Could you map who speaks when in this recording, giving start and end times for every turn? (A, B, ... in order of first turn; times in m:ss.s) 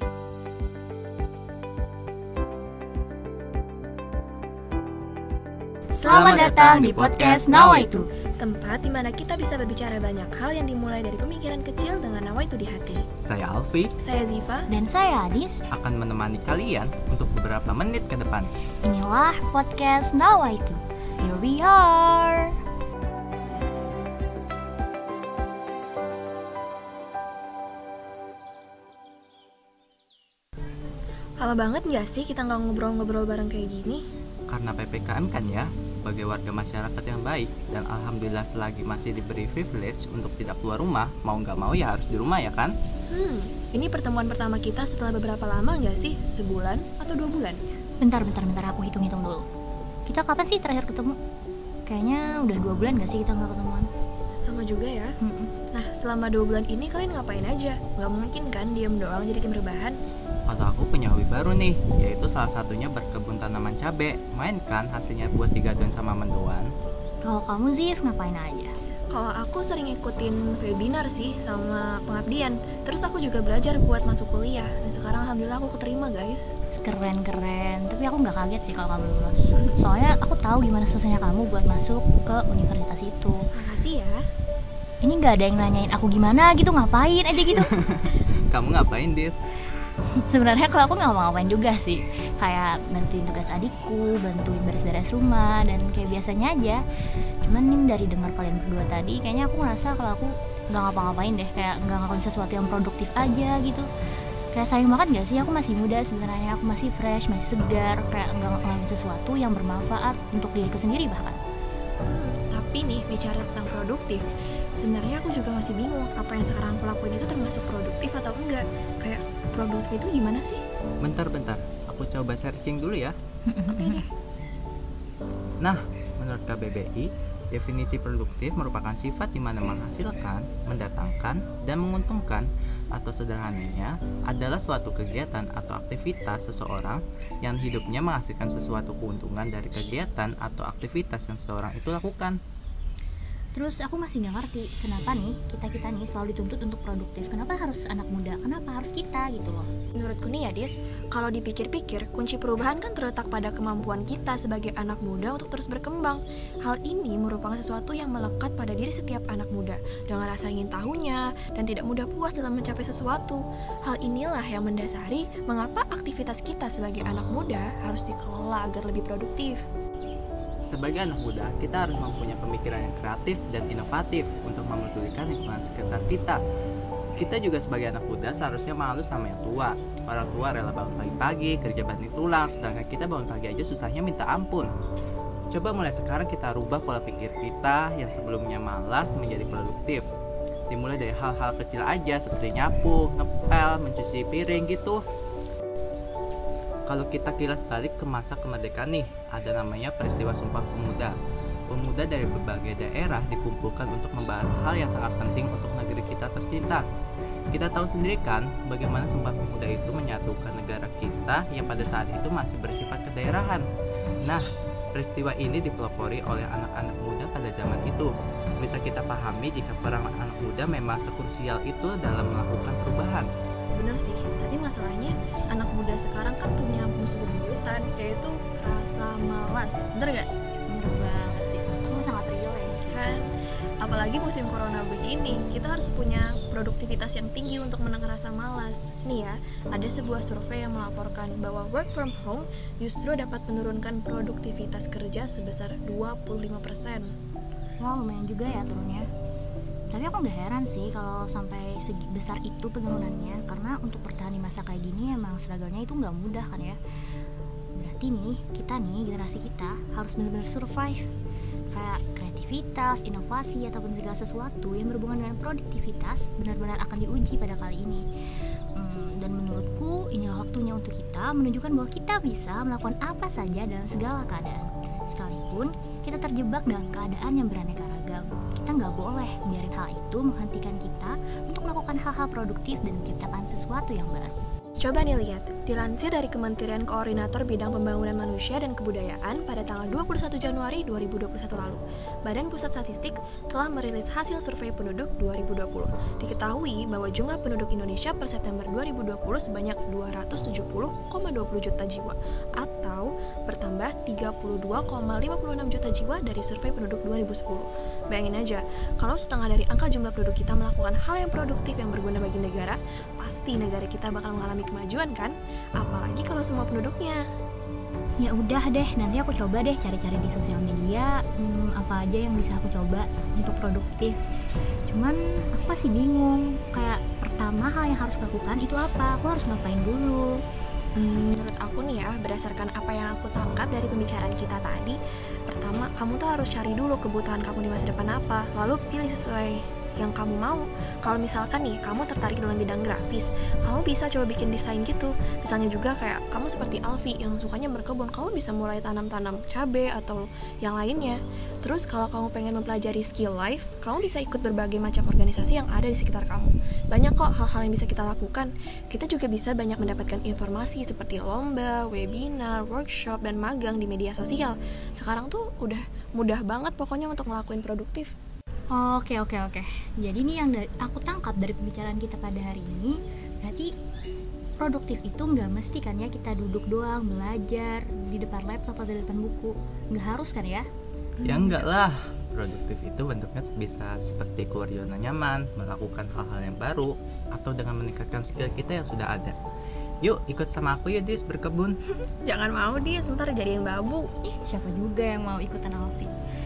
0:06.0-0:08.0 A
0:06.0-0:07.9 B
0:07.8-0:13.0 C
0:13.2-0:13.9 B
0:14.0-0:14.7 C
0:14.7-0:15.6 A
0:15.7-0:18.5 B
0:18.8-0:22.5 A
0:31.4-0:34.0 C
0:34.5-0:42.7 B
0:43.1-0:47.6 C
0:48.0-0:49.4 A
0:50.1-0:51.2 A
0:51.9-0:53.9 A
0:54.5-0:55.1 C
0:55.2-0:55.5 A
0:55.7-1:00.0 C
1:00.5-1:06.7 B
1:07.2-1:08.7 A
1:09.1-1:16.5 C
1:16.7-1:23.4 A
1:23.5-1:24.2 C
1:25.0-1:27.7 A
1:27.5-1:29.4 B
1:30.3-1:36.8 A
1:37.4-1:43.9 A
1:44.5-1:51.4 A
1:52.0-1:54.2 C
1:54.8-2:00.6 C
2:01.0-2:03.1 B
2:03.5-2:04.0 A
2:03.7-2:04.0 C
2:05.6-2:22.4 B
2:23.6-2:29.7 A
2:30.0-2:49.6 C
2:50.7-2:56.4 B
2:57.2-3:04.7 B
3:05.5-3:10.0 B
3:10.7-3:15.0 B
3:16.9-3:21.1 B
3:21.7-3:26.8 B
3:27.5-3:33.6 B
3:34.2-3:43.3 B
3:43.7-3:50.3 C
3:50.7-3:53.0 A
3:52.9-3:53.2 C
3:53.8-4:07.1 C
4:07.8-4:09.1 A
4:09.9-4:16.8 A
4:17.8-4:21.0 A
4:21.7-4:28.0 A
4:28.8-4:44.3 A
4:44.8-5:17.2 C
5:18.2-5:24.1 A
5:24.9-5:30.4 A
5:31.0-5:35.0 C
5:35.5-6:08.1 C
6:08.7-6:13.7 A
6:14.6-6:20.6 A
6:21.2-6:21.6 C
6:21.2-6:29.4 B
6:30.0-6:31.7 B
6:32.1-6:34.1 C
6:34.2-6:36.1 A